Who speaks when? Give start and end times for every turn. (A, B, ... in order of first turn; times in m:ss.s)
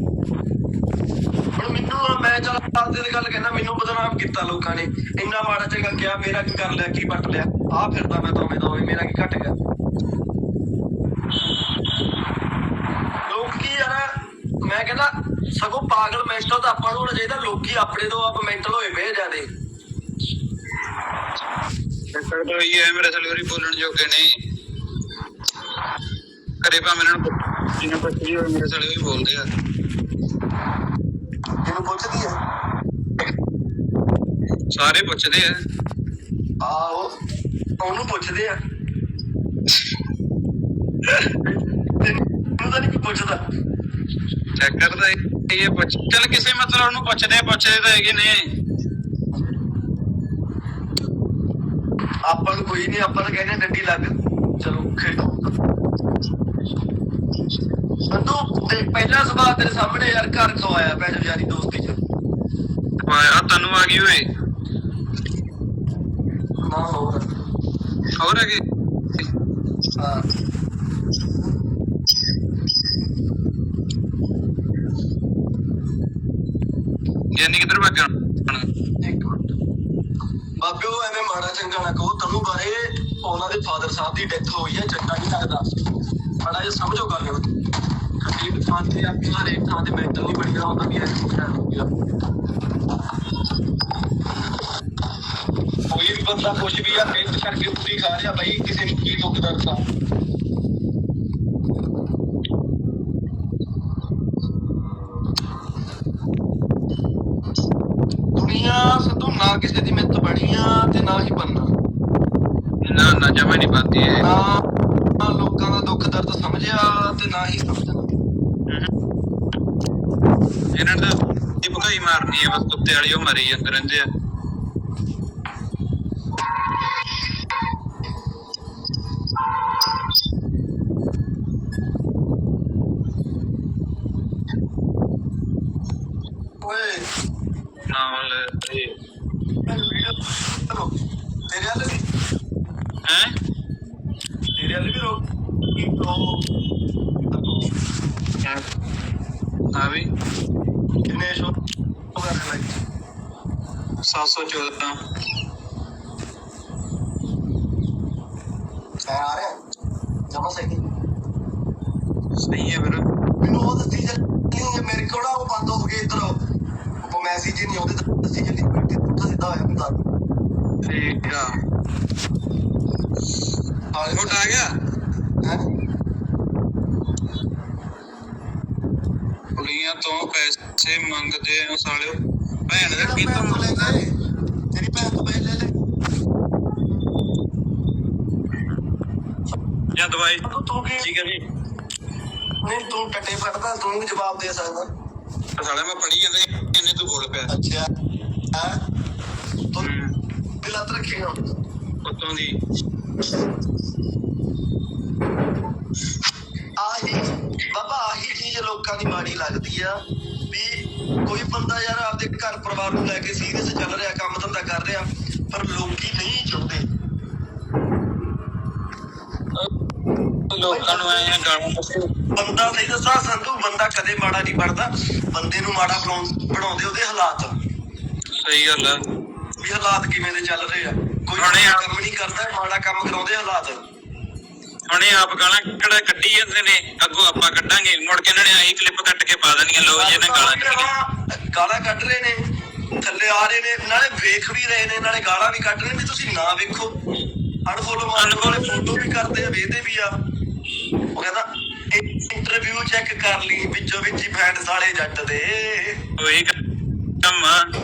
0:01.6-0:09.5 A
0:13.3-0:19.5 A
0:22.1-0:24.4 B
0:26.6-0:29.5 B
0:31.6-0:32.3 A
0:34.7-0:35.5 B
0:36.6-0:37.1 A
0:37.8-0:38.5 A
0:41.4-0:43.4 A
0:44.6-0:48.5 B
0:52.2-0:55.5 A
0:58.1-1:02.0 A
1:03.0-1:04.3 B
1:06.6-1:07.3 A
1:08.2-1:08.6 B
1:10.0-1:10.3 A
1:17.3-1:18.7 B
1:19.0-1:19.6 A
1:20.6-1:25.7 A
1:26.4-1:27.4 A
1:28.2-1:31.9 A
1:35.9-1:39.8 A
1:48.4-1:51.7 A
1:52.8-1:54.3 B
1:54.2-1:54.6 A
1:55.2-1:58.1 A
2:00.7-2:04.1 B
2:16.6-2:17.1 A
2:17.9-2:18.9 B
2:19.6-2:20.9 A
2:21.5-2:22.0 A
2:23.0-2:23.3 B
2:24.6-2:26.4 A
2:27.3-2:27.7 A
2:29.7-2:30.1 B
2:31.1-2:31.5 A
2:32.1-2:32.8 A
2:34.0-2:35.0 B
2:39.0-2:39.6 A
2:40.3-2:40.8 A
2:42.4-2:43.1 B
2:43.4-2:46.4 A
2:47.0-2:50.0 A
2:50.8-2:51.6 B
2:53.9-2:54.6 A
2:54.1-2:54.8 B
2:59.6-3:04.0 B
3:02.8-3:04.2 A
3:04.7-3:05.7 A
3:10.0-3:10.4 B
3:10.4-3:11.1 A
3:11.0-3:11.4 B
3:12.6-3:14.9 A
3:15.6-3:17.5 B
3:17.5-3:17.9 A
3:18.5-3:18.8 A
3:19.8-3:20.1 B
3:20.6-3:21.6 A
3:22.0-3:22.6 B
3:26.8-3:36.8 A
3:40.5-3:42.1 B
3:40.7-3:41.4 A
3:42.3-3:47.5 A
3:48.4-3:49.0 B
3:49.6-3:53.8 A
3:51.4-3:51.9 B
3:54.9-4:00.9 B
3:59.9-4:02.5 A
4:03.0-4:06.9 A
4:07.7-4:10.1 A
4:08.2-4:09.1 B
4:11.1-4:16.0 A
4:16.2-4:16.5 B
4:17.2-4:17.7 B